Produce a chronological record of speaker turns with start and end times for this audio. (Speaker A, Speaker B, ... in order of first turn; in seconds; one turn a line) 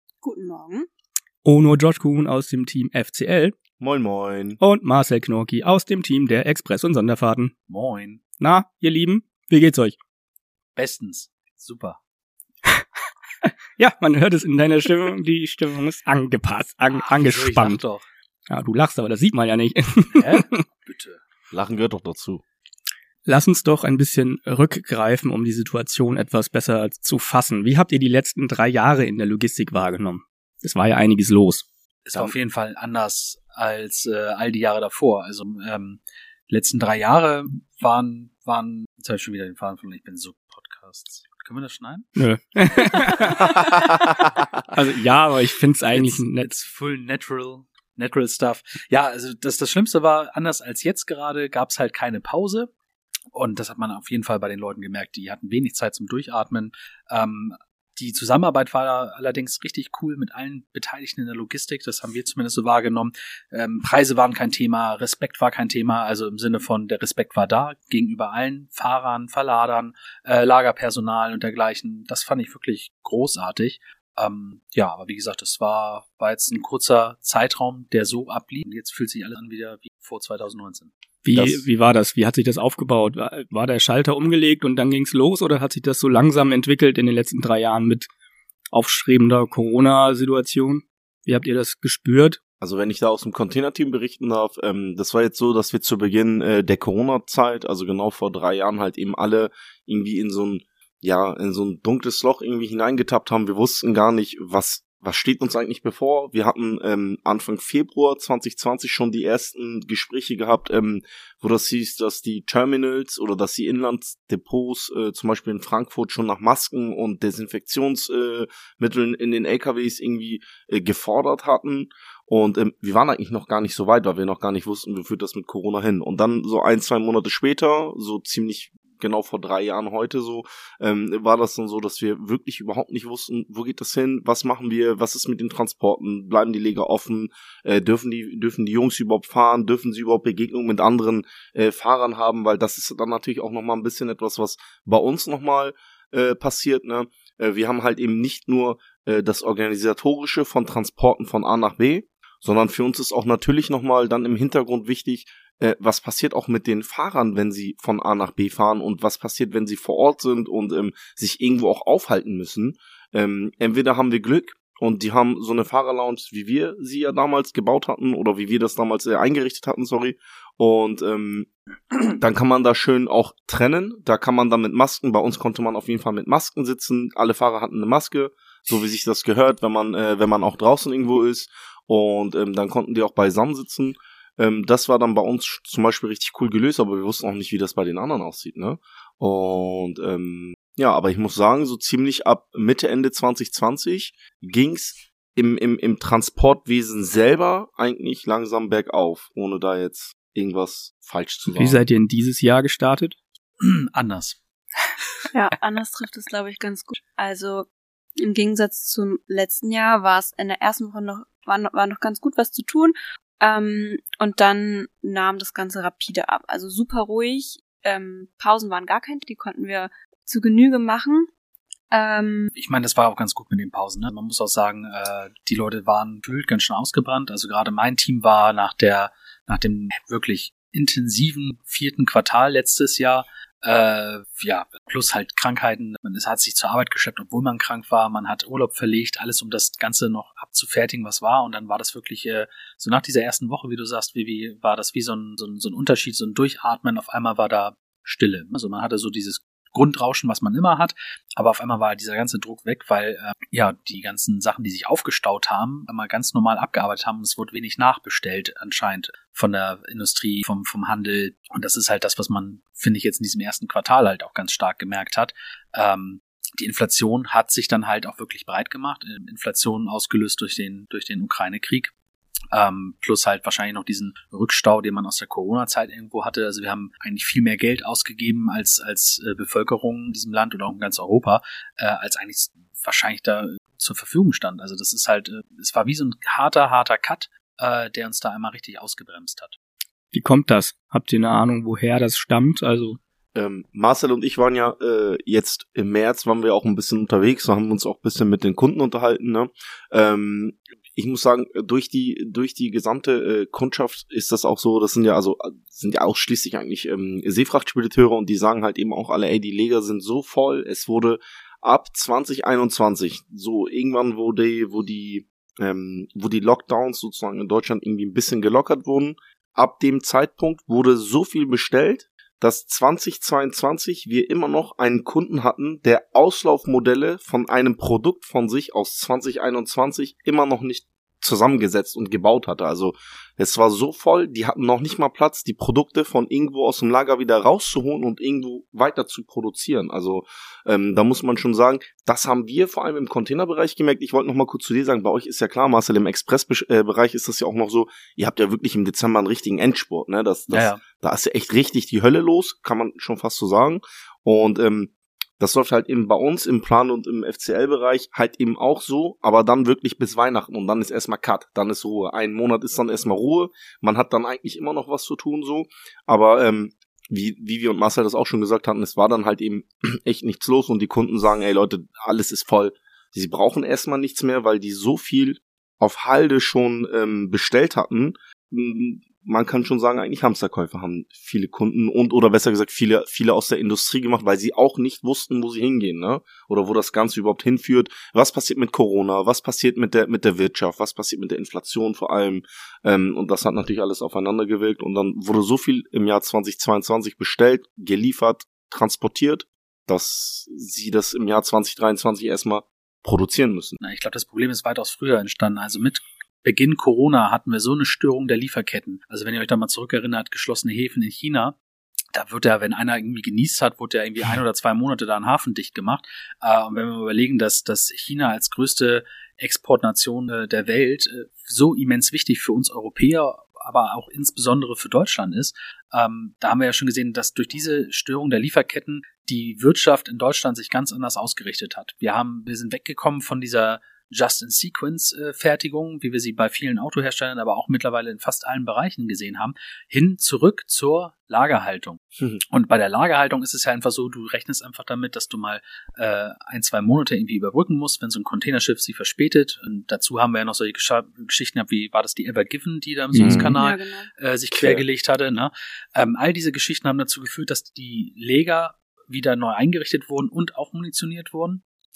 Speaker A: 0.2-0.9
Speaker B: 1.4-3.6
Speaker C: 3.8-4.6
Speaker B: 4.6-7.5
Speaker D: 7.7-8.2
Speaker B: 8.4-10.0
Speaker D: 10.8-12.0
Speaker B: 13.4-17.8
Speaker D: 16.9-18.1
Speaker B: 18.5-20.6
Speaker D: 20.1-21.2
Speaker C: 21.5-22.4
Speaker B: 23.3-31.6
Speaker D: 32.0-42.1
Speaker B: 42.2-46.5
Speaker D: 43.0-43.2
Speaker D: 45.9-52.7
Speaker D: 53.3-80.9
Speaker B: 81.2-88.1
Speaker C: 81.3-81.7
Speaker B: 88.7-92.4
Speaker C: 92.6-171.5
Speaker C: 172.1-201.8
Speaker B: 201.5-203.2
Speaker D: 203.6-204.4
Speaker A: 205.3-207.7
Speaker A: 208.2-221.3
Speaker A: 221.9-222.5
Speaker D: 222.6-271.9
Speaker D: 272.5-289.6
Speaker B: 290.1-293.0
Speaker C: 293.4-403.8
Speaker D: 350.5-350.8
Speaker D: 403.8-411.6
Speaker D: 412.1-442.0
Speaker D: 442.5-461.6
Speaker B: 453.1-453.5
Speaker C: 453.2-453.6
Speaker A: 453.5-454.1
Speaker C: 454.5-454.8